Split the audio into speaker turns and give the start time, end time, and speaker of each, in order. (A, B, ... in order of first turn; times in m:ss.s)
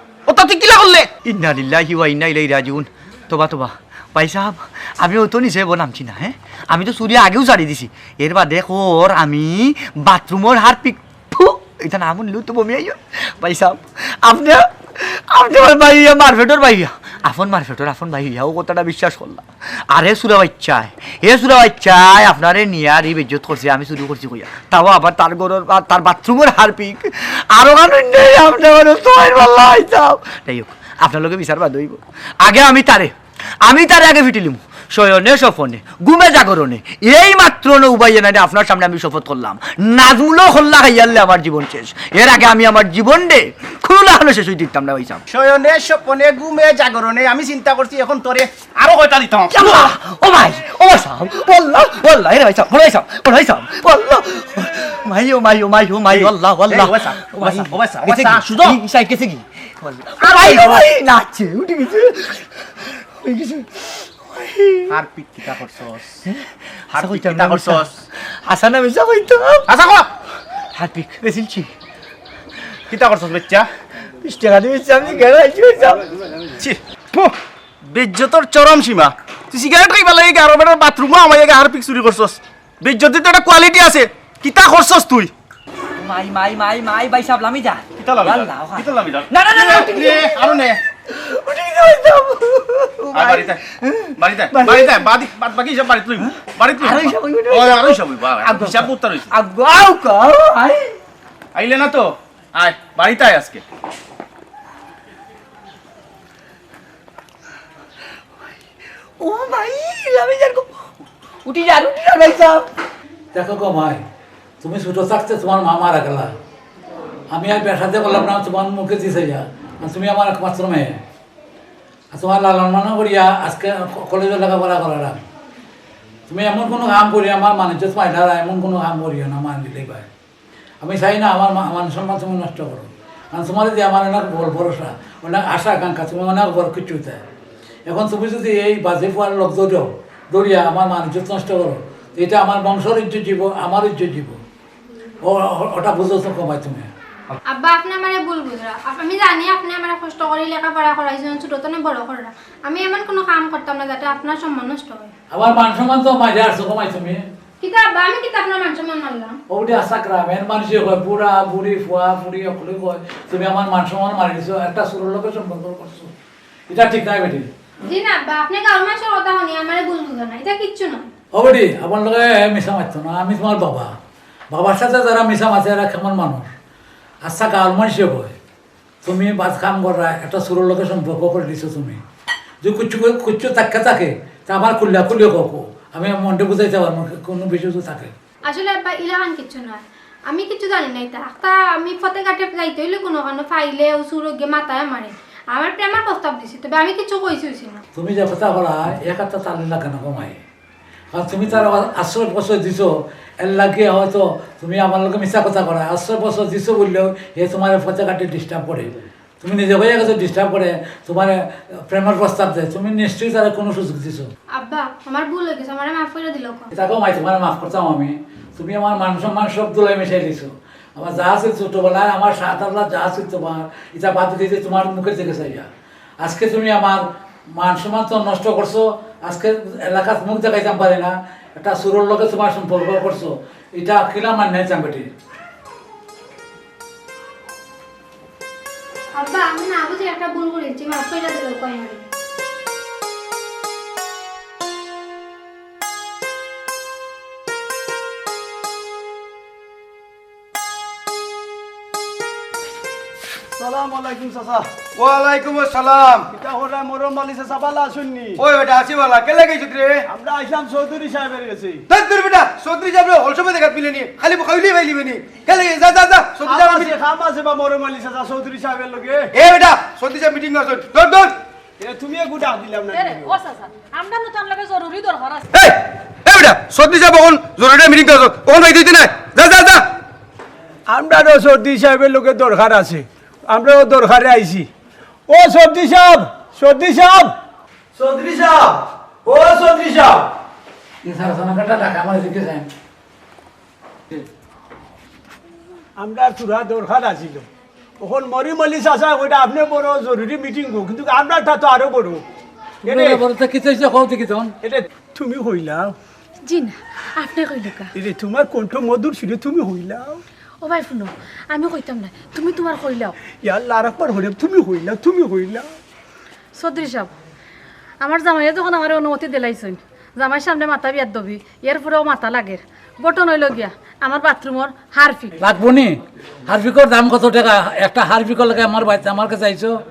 0:00.3-0:01.1 A
0:01.2-0:45.2 B
0:45.3-0:49.9 A
0:49.5-1:04.9 B
0:56.1-0:58.8 A
1:00.2-1:00.8 A
1:04.9-1:06.2 A
1:06.2-1:07.9 B
1:06.9-1:08.0 A
1:08.4-1:09.7 B
1:09.7-1:10.1 A
1:10.7-1:11.7 B
1:12.9-1:13.6 A
1:14.2-1:16.1 B
1:16.6-1:17.3 A
1:17.9-1:25.3 A
1:26.0-1:35.1 B
1:28.0-1:30.8 A
1:33.1-1:33.6 A
1:34.2-1:39.3 A
1:36.8-1:41.0 B
1:41.5-1:43.6 A
1:49.2-1:50.9 B
1:51.4-1:52.7 B
1:53.3-1:54.0 C
1:54.6-1:56.3 C
1:57.3-2:01.0 C
2:02.1-2:05.2 C
2:06.3-2:10.1 C
2:10.8-2:17.2 C
2:17.9-2:24.4 C
2:25.2-2:26.9 C
2:27.5-2:35.1 D
2:35.3-2:37.2 C
2:37.6-2:39.4 D
2:39.5-2:46.1 C
2:46.7-2:47.5 C
2:47.8-2:51.0 D
2:51.3-2:53.9 C
2:54.5-2:56.5 C
2:57.2-2:58.4 C
2:59.0-3:02.0 C
3:02.6-3:08.1 C
3:08.5-3:17.8 D
3:17.9-3:20.4 C
3:21.1-3:22.9 C
3:23.4-3:31.4 C
3:31.9-3:34.3 C
3:34.5-3:36.7 D
3:36.7-3:45.7 C
3:46.2-3:47.0 C
3:47.6-3:55.1 C
3:59.1-4:02.0 D
4:13.6-4:14.7 E
4:15.0-4:16.3 F
4:16.3-4:18.4 E
4:18.4-4:20.0 F
4:20.1-4:21.8 E
4:21.9-4:26.9 F
4:26.4-4:29.3 E
4:29.3-4:31.3 F
4:31.8-4:33.4 E
4:32.9-4:35.5 G
4:35.5-4:39.8 F
4:40.9-4:44.7 E
4:45.3-4:47.3 E
4:48.0-4:50.2 F
4:51.0-4:52.7 C
4:56.0-4:57.4 E
4:58.0-5:02.2 E
5:02.8-5:04.5 C
5:02.8-5:03.2 E
5:04.6-5:05.9 E
5:06.4-5:07.9 G
5:07.9-5:10.2 E
5:10.6-5:13.1 G
5:13.4-5:15.7 E
5:16.6-5:17.1 G
5:18.0-5:25.4 G
5:25.4-5:29.7 C